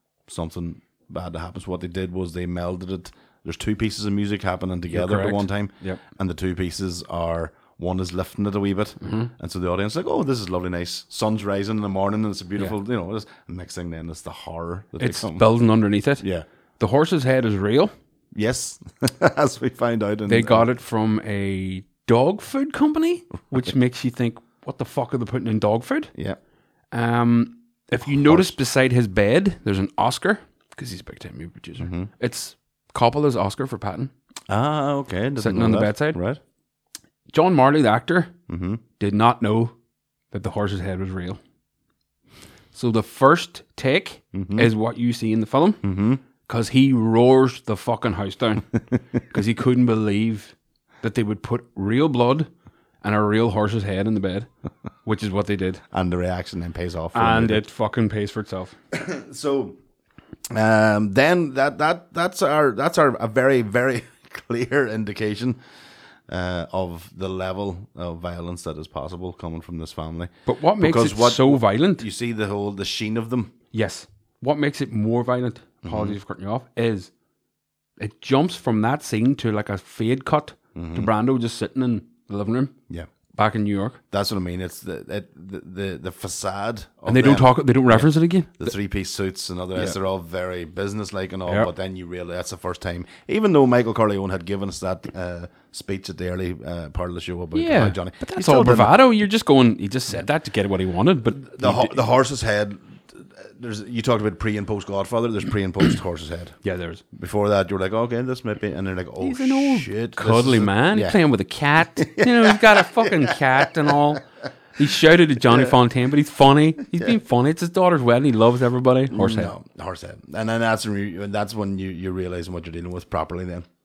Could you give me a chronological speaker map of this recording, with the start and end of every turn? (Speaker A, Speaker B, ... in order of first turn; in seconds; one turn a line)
Speaker A: 0.3-15.5
Speaker B: 4.9-6.0
Speaker B: 9.0-9.3
Speaker B: 15.0-16.3
Speaker A: 16.2-16.5
Speaker B: 16.8-17.9
Speaker A: 18.3-20.7
Speaker B: 20.3-26.1
Speaker B: 26.9-34.1
Speaker A: 28.0-28.6
Speaker A: 31.8-32.1
Speaker A: 34.5-36.4
Speaker B: 35.4-36.2
Speaker B: 37.3-38.4
Speaker A: 38.5-38.8
Speaker B: 39.0-39.8
Speaker B: 40.3-41.4
Speaker B: 42.7-45.8
Speaker A: 44.3-44.7
Speaker A: 45.8-46.2
Speaker B: 46.5-48.7
Speaker B: 49.3-52.5
Speaker B: 53.0-54.5
Speaker B: 55.0-55.8
Speaker A: 55.9-57.6
Speaker B: 57.1-58.8
Speaker A: 58.9-59.8
Speaker A: 60.5-65.6
Speaker A: 66.3-73.5
Speaker B: 70.5-72.1
Speaker B: 73.7-77.1
Speaker A: 75.8-76.2
Speaker B: 78.0-82.8
Speaker A: 80.8-81.1
Speaker B: 83.3-84.0
Speaker A: 84.1-99.0
Speaker B: 87.1-88.8
Speaker B: 97.5-102.0
Speaker A: 101.3-106.5
Speaker B: 106.6-107.0
Speaker A: 107.1-111.2
Speaker B: 109.2-114.2
Speaker A: 111.8-114.2
Speaker B: 114.8-119.5
Speaker A: 115.5-115.8
Speaker A: 119.1-123.7